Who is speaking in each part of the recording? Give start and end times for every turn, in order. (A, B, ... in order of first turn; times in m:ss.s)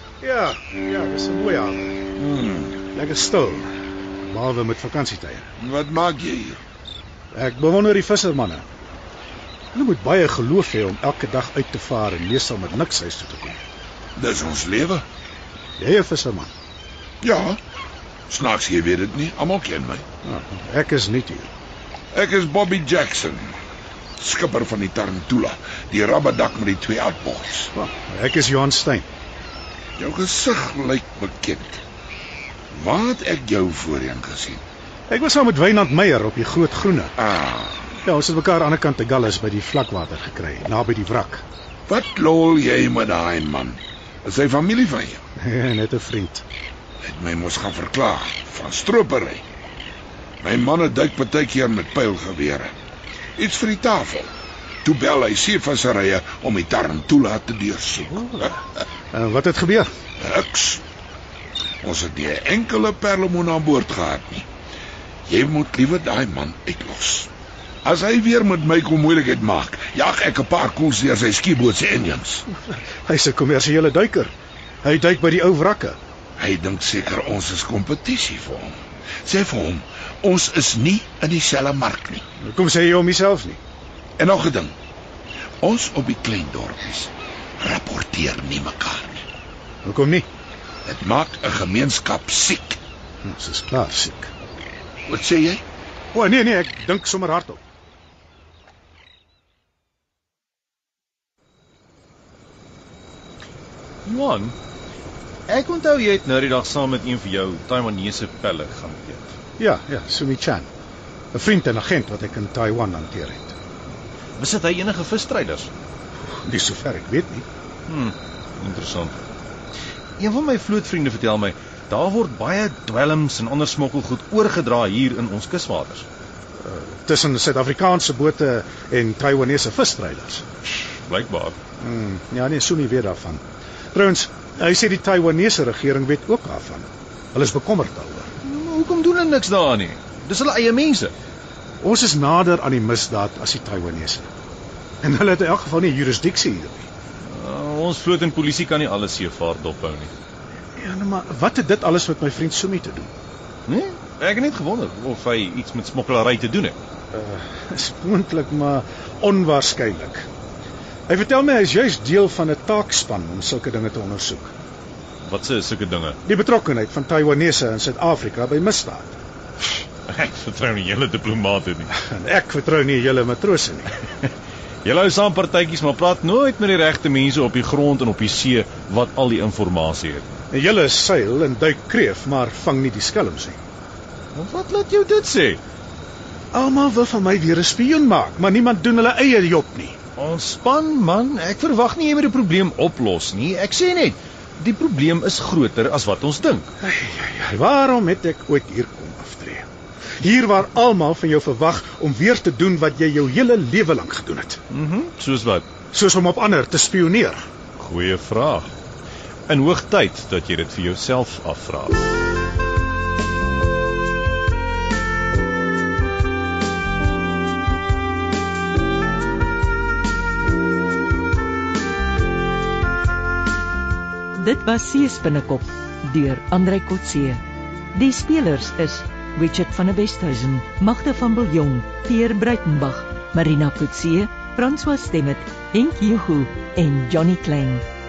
0:00.2-0:02.0 A
0:02.2-0:02.8 B
0:02.9-0:05.4 A
0:05.6-0:06.6 B
0:07.3-0:08.6 A
0:09.7-0:13.6 A
0:14.2-0:15.0 B
0:15.8-0:16.5 A
0:17.2-0:17.6 B
0:18.3-0:20.0 B
0:20.2-0:21.5 A
0:22.1-0:23.6 B
0:24.2-0:27.7 B
0:27.7-0:29.1 A
0:30.0-0:31.8 B
0:32.7-0:34.6 B
0:35.1-0:37.1 A
0:37.2-0:38.0 B
0:38.0-0:41.4 A
0:41.9-0:45.2 B
0:45.4-0:46.4 A
0:47.0-0:49.4 B
0:50.4-0:52.7 B
0:53.4-0:54.3 B
0:54.8-0:58.6 B
0:59.1-0:59.9 A
1:00.2-1:00.8 B
1:01.8-1:04.5 B
1:05.3-1:07.3 B
1:07.8-1:12.4 B
1:12.5-1:14.3 A
1:14.8-1:16.0 A
1:16.4-1:22.2 B
1:22.4-1:23.6 A
1:24.2-1:24.7 B
1:25.6-1:29.2 B
1:29.8-1:30.2 A
1:30.8-1:32.8 B
1:33.2-1:34.3 A
1:35.1-1:35.6 B
1:36.1-1:37.6 A
1:44.0-1:44.6 C
1:45.5-1:49.3 C
1:49.6-1:50.7 A
1:51.3-1:53.6 A
1:54.4-1:55.7 C
1:56.4-1:57.4 A
1:57.9-1:59.2 C
2:00.2-2:06.0 C
2:06.6-2:10.4 A
2:10.8-2:11.6 C
2:11.8-2:18.3 A
2:18.4-2:21.1 C
2:21.8-2:24.3 A
2:25.0-2:26.9 A
2:27.3-2:30.1 C
2:30.8-2:33.1 A
2:33.7-2:36.8 C
2:37.1-2:40.3 A
2:41.1-2:44.5 A
2:45.2-2:46.2 C
2:46.2-2:49.2 A
2:50.1-2:51.9 C
2:51.9-2:53.9 A
2:54.8-3:00.3 C
3:00.5-3:03.6 A
3:04.3-3:05.6 C
3:06.5-3:10.0 A
3:10.2-3:16.7 C
3:16.8-3:19.6 A
3:20.2-3:24.6 A
3:24.7-3:25.6 C
3:25.9-3:27.4 A
3:27.8-3:28.7 C
3:29.5-3:32.0 C
3:44.4-3:47.4 D
3:47.9-3:57.8 D